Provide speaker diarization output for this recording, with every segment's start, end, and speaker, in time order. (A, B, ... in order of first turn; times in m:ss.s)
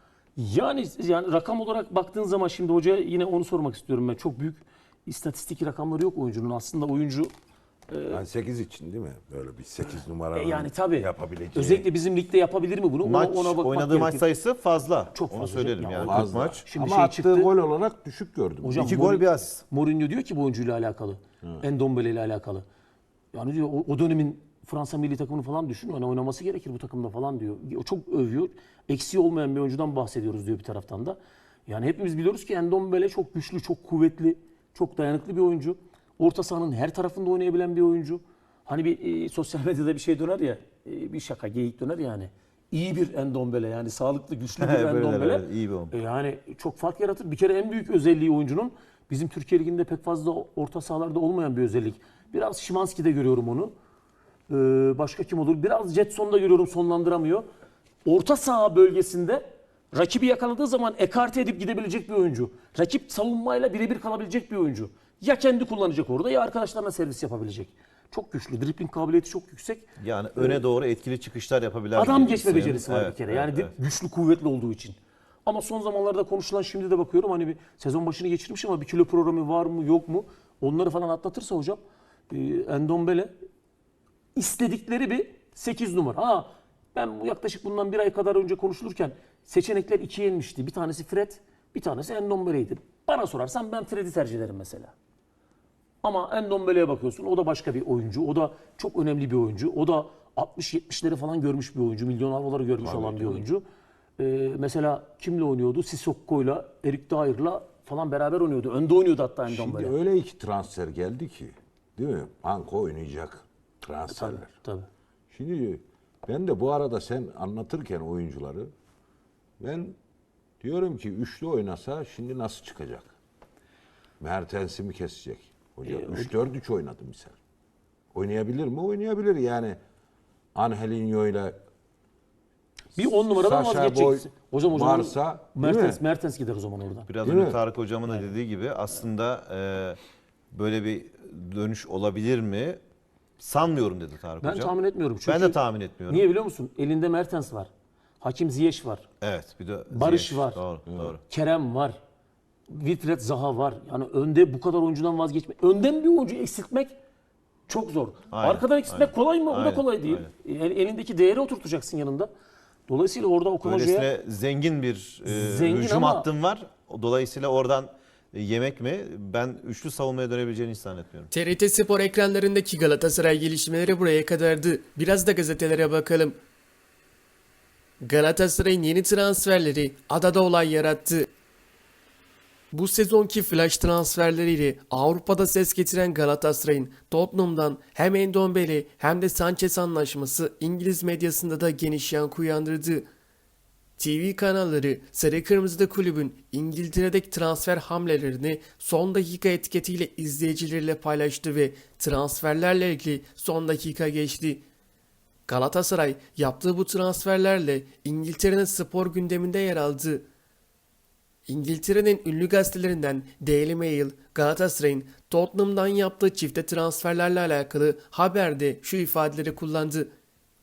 0:00.4-0:07.3 A
0:07.9-0:08.2 A
0:08.1-0:11.9 B
0:10.3-0:14.2 A
0:13.0-0:16.6 C
0:15.1-0:17.5 A
0:16.0-0:19.0 B
0:18.6-0:22.6 A
0:18.7-0:19.6 C
0:23.3-0:53.7 A
0:44.6-0:45.9 C
0:54.5-0:57.5 A
0:58.0-1:10.6 A
1:10.0-1:13.7 C
1:11.9-1:23.3 A
1:24.3-1:34.9 A
1:36.0-1:43.6 A
1:42.8-1:43.5 B
1:44.2-1:49.9 A
1:49.5-1:54.5 B
1:54.1-1:54.9 A
1:55.3-1:58.7 B
1:59.6-2:00.0 B
2:00.6-2:03.1 B
2:04.2-2:07.4 B
2:05.8-2:06.3 A
2:08.1-2:09.8 B
2:10.5-2:11.6 B
2:12.9-2:17.1 A
2:13.3-2:16.0 B
2:17.1-2:20.0 C
2:17.2-2:17.6 B
2:20.5-2:22.8 C
2:23.4-2:24.7 C
2:24.4-2:29.1 A
2:25.2-2:26.2 C
2:29.2-2:31.2 C
2:29.9-2:30.6 A
2:30.9-2:31.1 B
2:31.3-2:32.0 A
2:32.7-2:37.0 A
2:37.7-2:42.3 A
2:38.3-2:40.3 C
2:42.9-2:44.1 A
2:43.6-2:51.3 C
2:45.3-2:46.3 A
2:51.3-2:56.4 D
2:58.0-3:01.3 D
3:02.7-3:13.0 D
3:14.0-3:24.6 D
3:25.5-3:30.2 D
3:31.5-3:40.1 D